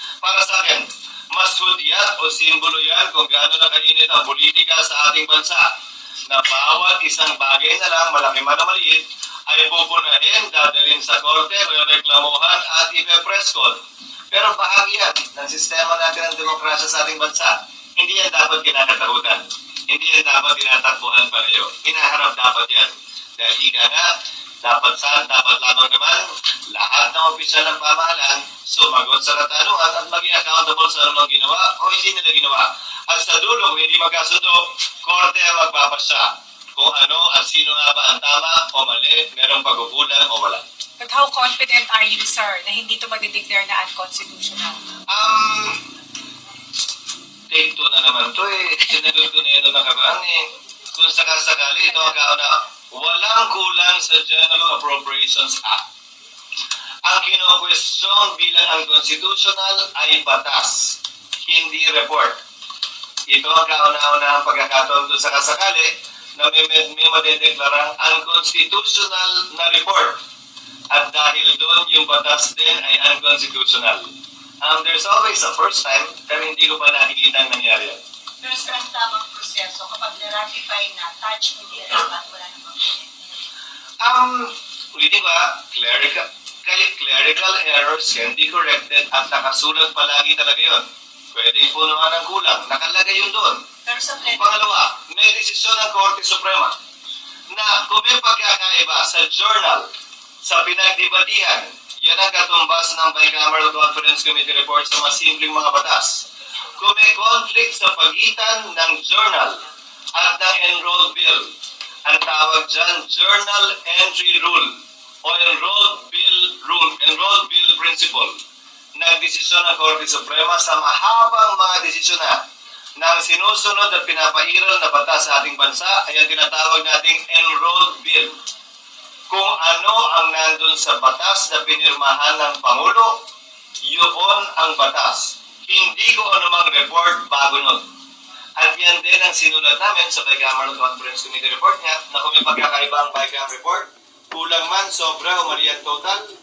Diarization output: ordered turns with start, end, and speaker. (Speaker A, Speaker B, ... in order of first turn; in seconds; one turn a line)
Speaker A: 0.2-5.6
Speaker A: 6.3-13.8
Speaker A: 14.3-24.1
Speaker A: 24.6-40.6
Speaker B: 41.0-44.8
Speaker A: 45.1-45.8
Speaker A: 47.5-50.4
Speaker A: 50.9-55.8
Speaker B: 51.9-52.1
Speaker A: 57.0-62.4
Speaker A: 63.3-70.2
Speaker A: 70.9-74.1
Speaker A: 74.6-78.0
Speaker C: 78.4-83.0
Speaker A: 84.0-93.6
Speaker C: 93.8-94.5
Speaker A: 94.3-96.7
Speaker A: 97.5-99.8
Speaker A: 100.4-106.2
Speaker A: 106.8-109.6
Speaker A: 110.1-111.5
Speaker A: 112.0-114.7
Speaker A: 115.2-118.3
Speaker A: 119.0-122.4
Speaker A: 123.0-128.3
Speaker A: 129.3-133.2
Speaker A: 133.8-137.8
Speaker A: 138.6-146.2